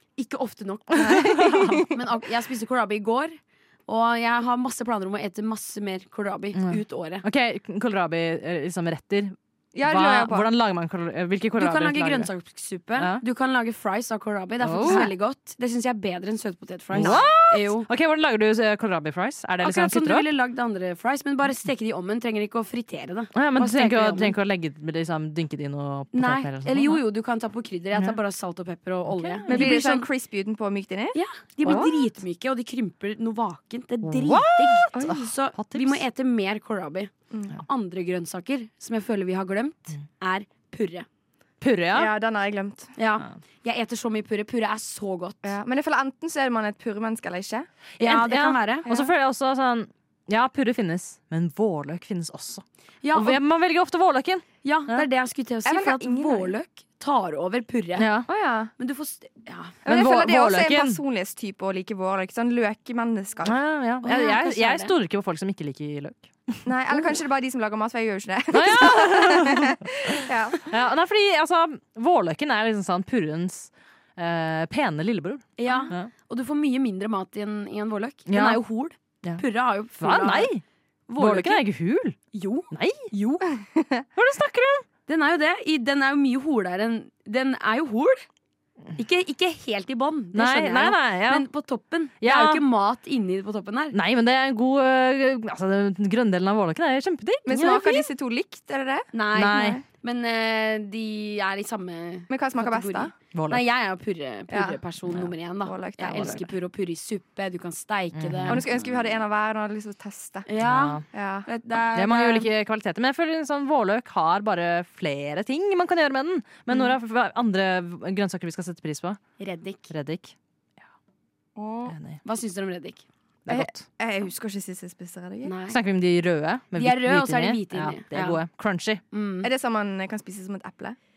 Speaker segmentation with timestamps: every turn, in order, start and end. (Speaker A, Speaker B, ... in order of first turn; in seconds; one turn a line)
Speaker A: 0.2-1.3
Speaker B: 1.0-1.9
Speaker C: 1.0-1.8
Speaker A: 1.9-7.2
Speaker C: 6.5-12.3
Speaker B: 9.7-10.5
Speaker A: 11.6-17.9
Speaker C: 13.0-13.2
Speaker C: 14.6-15.1
Speaker C: 16.9-20.3
Speaker B: 17.0-17.3
Speaker A: 19.6-24.3
Speaker C: 23.4-27.0
Speaker A: 26.1-30.1
Speaker C: 29.1-29.8
Speaker B: 29.5-31.9
Speaker A: 31.1-41.1
Speaker C: 34.1-36.0
Speaker B: 34.9-35.3
Speaker B: 37.3-37.6
Speaker C: 41.6-42.1
Speaker B: 41.9-42.9
Speaker A: 43.0-45.5
Speaker B: 45.4-47.7
Speaker A: 48.0-48.9
Speaker C: 48.0-55.1
Speaker A: 53.0-53.4
Speaker A: 54.6-58.1
Speaker B: 55.7-56.5
Speaker C: 58.0-58.3
Speaker B: 58.3-58.7
Speaker A: 58.8-59.8
Speaker B: 59.9-63.6
Speaker C: 59.9-61.0
Speaker C: 63.4-66.6
Speaker A: 64.0-64.9
Speaker B: 66.7-70.7
Speaker C: 68.5-76.1
Speaker A: 75.6-80.5
Speaker C: 78.3-78.6
Speaker C: 80.0-80.6
Speaker A: 81.1-81.6
Speaker C: 81.2-82.2
Speaker A: 82.3-83.5
Speaker C: 82.7-83.1
Speaker B: 83.6-84.0
Speaker C: 84.2-84.8
Speaker A: 85.1-88.2
Speaker A: 89.0-94.0
Speaker C: 90.3-91.5
Speaker C: 92.2-92.6
Speaker C: 93.9-97.5
Speaker B: 97.5-99.8
Speaker A: 97.5-98.1
Speaker A: 99.1-108.6
Speaker C: 99.3-99.8
Speaker B: 102.3-103.1
Speaker C: 103.3-103.6
Speaker B: 104.5-104.8
Speaker B: 105.6-106.5
Speaker C: 108.1-108.6
Speaker B: 108.5-110.5
Speaker A: 110.5-112.5
Speaker C: 110.6-111.0
Speaker B: 111.1-111.5
Speaker C: 112.0-119.2
Speaker A: 119.4-119.9
Speaker C: 119.9-120.3
Speaker B: 121.6-121.9
Speaker C: 121.9-122.2
Speaker A: 122.2-123.1
Speaker C: 123.5-123.8
Speaker B: 123.5-125.5
Speaker A: 125.4-125.8
Speaker C: 125.7-129.0
Speaker A: 126.8-128.4
Speaker A: 129.1-129.5
Speaker B: 129.4-131.0